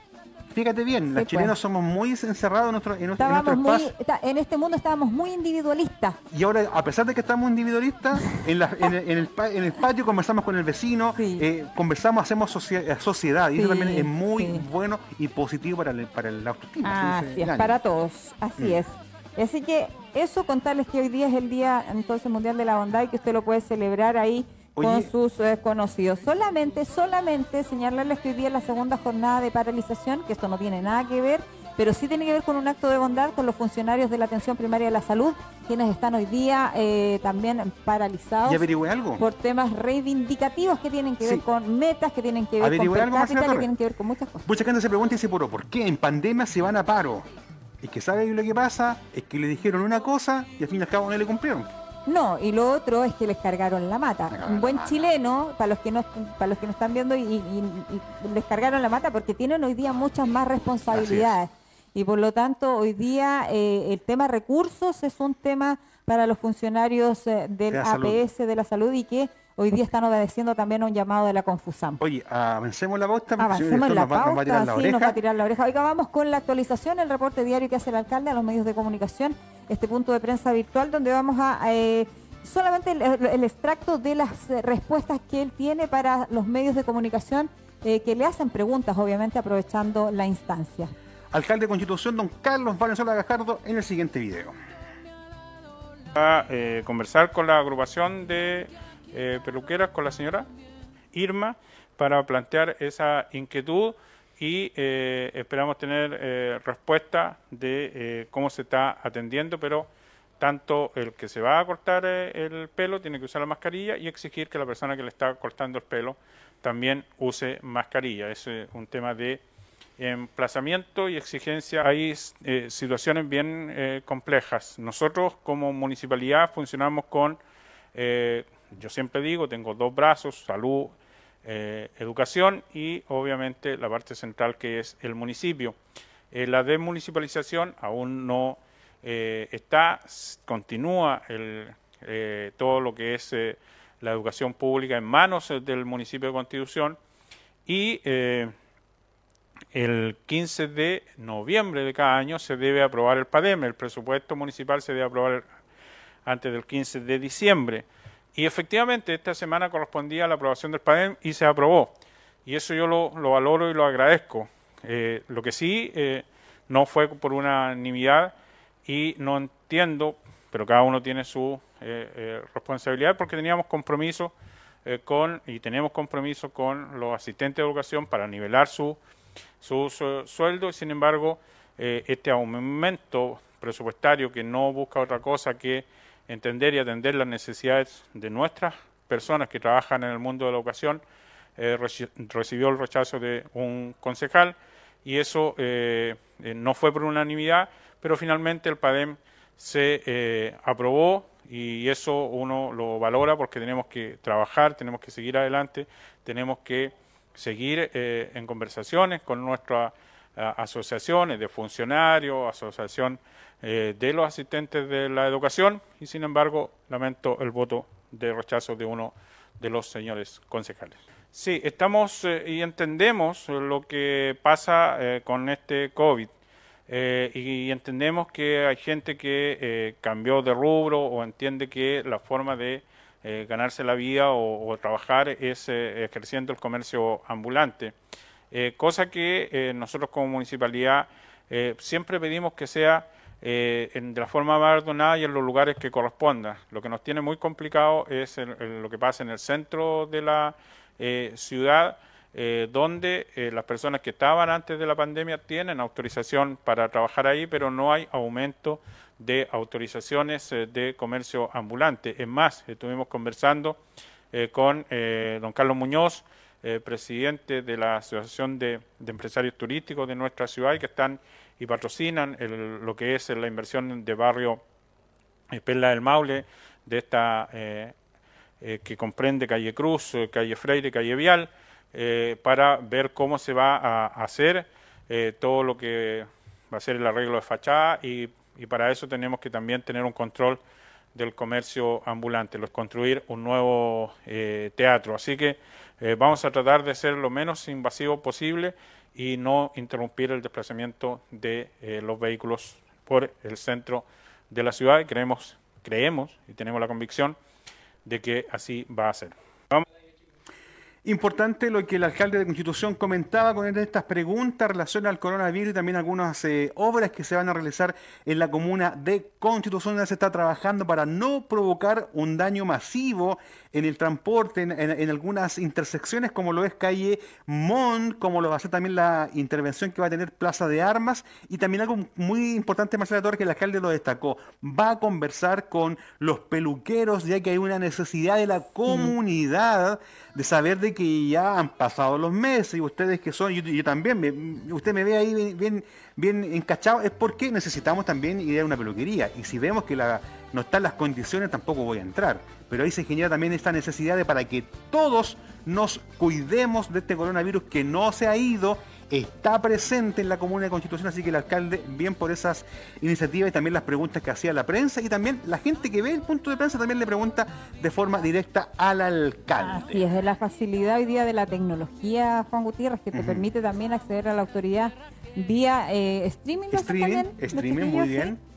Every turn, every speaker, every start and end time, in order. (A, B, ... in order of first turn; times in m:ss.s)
0:00.5-0:03.9 A
0:01.1-0:01.5 B
0:03.2-0:06.2 B
0:06.3-0:17.8 A
0:11.2-0:11.4 B
0:13.6-0:14.6 B
0:16.8-0:38.6 B
0:24.8-0:25.1 A
0:38.4-0:39.2 A
0:39.2-0:44.5 B
0:42.6-0:43.7 A
0:44.4-0:47.3 A
0:47.8-0:51.7 A
0:52.1-1:12.0 B
0:54.3-0:55.1 A
1:00.9-1:01.4 A
1:07.7-1:08.2 A
1:12.0-1:15.2 A
1:13.4-1:30.9 B
1:31.3-1:34.6 A
1:36.1-1:40.5 C
1:41.1-1:59.4 C
2:00.0-2:07.4 C
2:07.9-2:10.9 C
2:11.4-2:15.8 C
2:16.3-2:27.0 C
2:27.6-2:28.5 C
2:29.7-2:35.4 C
2:36.2-2:41.9 C
2:42.4-2:48.3 C
2:48.8-2:54.3 C
2:54.8-2:59.0 C
2:59.6-3:11.0 C
3:11.6-3:46.3 C
3:46.9-3:57.9 C
3:58.5-4:23.8 C
4:24.3-4:34.6 C
4:35.5-4:37.9 C
4:38.6-4:50.6 C
4:51.1-5:07.4 C
5:08.0-5:09.8 C
5:11.0-6:10.0 A
5:38.9-5:39.1 B
6:09.6-6:18.3 B
6:13.1-6:13.4 A
6:16.7-6:18.4 A